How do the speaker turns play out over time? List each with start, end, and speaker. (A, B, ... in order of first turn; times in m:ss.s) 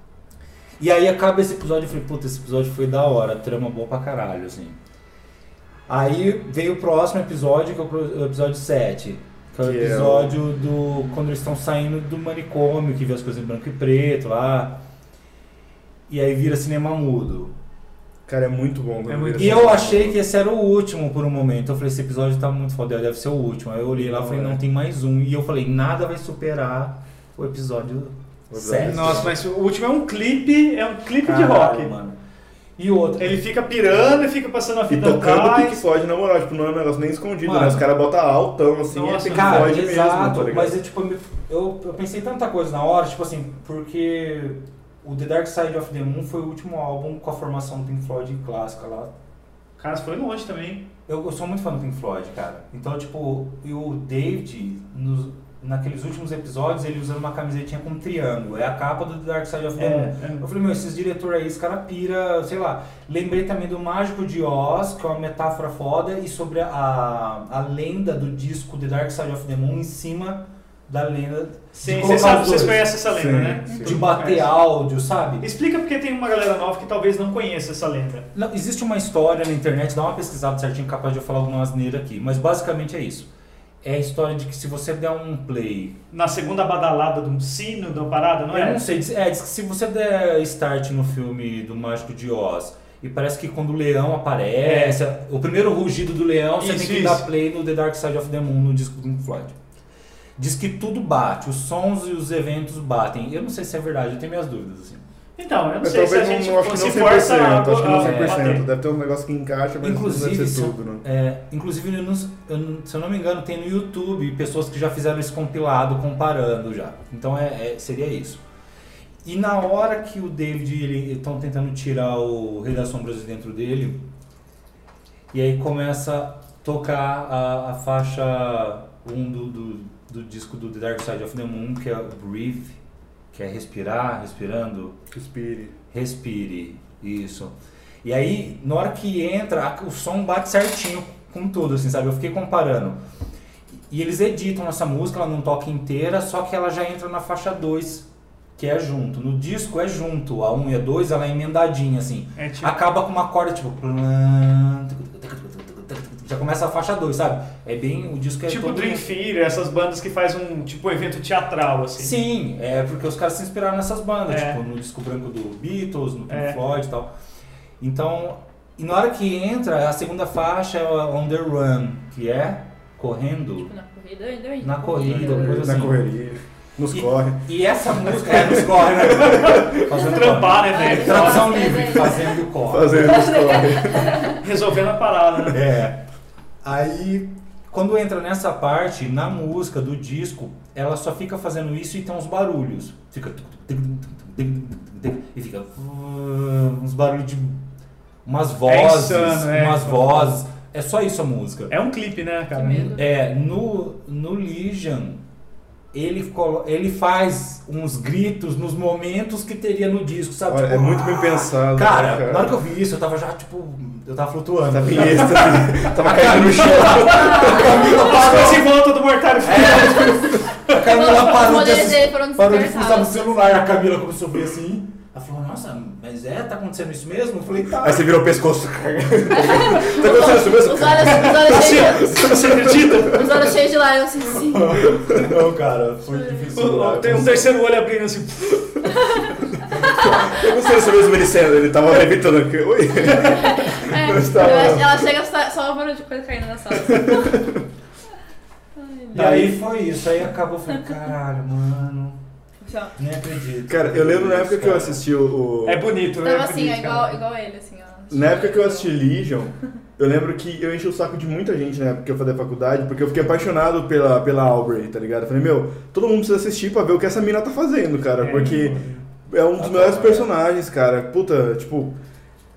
0:00.8-0:04.8 A
0:05.9-0:14.8 A
0:09.6-0:10.4 B
0:16.1-0:17.5 A
0:18.3-0:20.2 B
0:19.1-0:19.9 C
0:19.3-0:29.3 A
0:23.9-0:24.6 B
0:28.5-0:29.3 B
0:28.8-0:31.9 C
0:31.2-0:32.2 A
0:32.8-0:33.4 A
0:33.2-0:35.8 C
0:34.9-0:40.8 B
0:37.4-0:37.8 A
0:38.9-0:39.8 C
0:39.2-0:49.1 A
0:49.8-0:50.8 C
0:51.1-1:12.9 A
0:59.8-1:00.4 C
1:11.7-1:14.5 C
1:13.0-1:14.0 B
1:13.8-1:15.4 A
1:15.4-1:18.3 C
1:18.3-1:23.3 A
1:23.8-1:26.0 A
1:26.1-1:28.8 C
1:28.5-1:39.6 A
1:34.6-1:35.0 C
1:36.6-1:37.2 C
1:40.4-1:45.0 A
1:45.4-1:48.6 C
1:45.8-1:51.0 B
1:48.0-1:48.5 A
1:49.8-1:58.4 A
1:59.2-2:04.0 A
2:05.3-2:12.8 A
2:13.3-2:15.0 A
2:15.1-2:15.8 B
2:15.9-2:23.0 A
2:23.9-2:28.0 A
2:28.6-2:39.1 A
2:32.4-2:32.7 C
2:38.5-2:42.2 C
2:42.0-2:47.1 A
2:44.3-2:44.6 C
2:46.3-2:46.6 C
2:47.8-2:53.7 A
2:53.6-2:55.7 D
2:54.6-2:56.0 A
2:55.0-2:57.4 B
2:56.9-3:03.5 A
2:58.2-2:59.9 B
2:59.1-3:01.9 C
3:00.7-3:04.4 D
3:02.6-3:04.4 B
3:04.4-3:05.6 C
3:05.5-3:06.0 A
3:06.6-3:17.6 A
3:18.2-3:21.7 A
3:18.6-3:20.3 C
3:21.7-3:22.9 C
3:22.5-3:23.0 D
3:22.8-3:25.2 A
3:25.9-3:38.7 A
3:30.5-3:32.6 B
3:34.7-3:38.6 B
3:36.7-3:41.2 C
3:37.1-3:37.9 D
3:39.4-3:48.1 A
3:40.7-3:43.3 D
3:47.8-3:53.2 B
3:49.3-3:52.4 D
3:51.3-3:53.6 C
3:53.0-3:54.9 D
3:54.6-3:56.4 A
3:54.7-3:57.5 B
3:56.1-3:56.5 D
3:56.5-3:58.9 C
3:58.8-4:00.3 D
3:59.7-4:05.1 B
4:03.1-4:07.4 D
4:06.7-4:07.6 B
4:08.8-4:09.6 D
4:09.1-4:12.2 A
4:09.1-4:09.6 C
4:12.6-4:12.9 D
4:13.0-4:15.0 A
4:13.7-4:15.9 B
4:15.6-4:17.2 C
4:16.2-4:18.9 D
4:18.1-4:32.0 B
4:28.2-4:29.0 C
4:29.6-4:30.3 A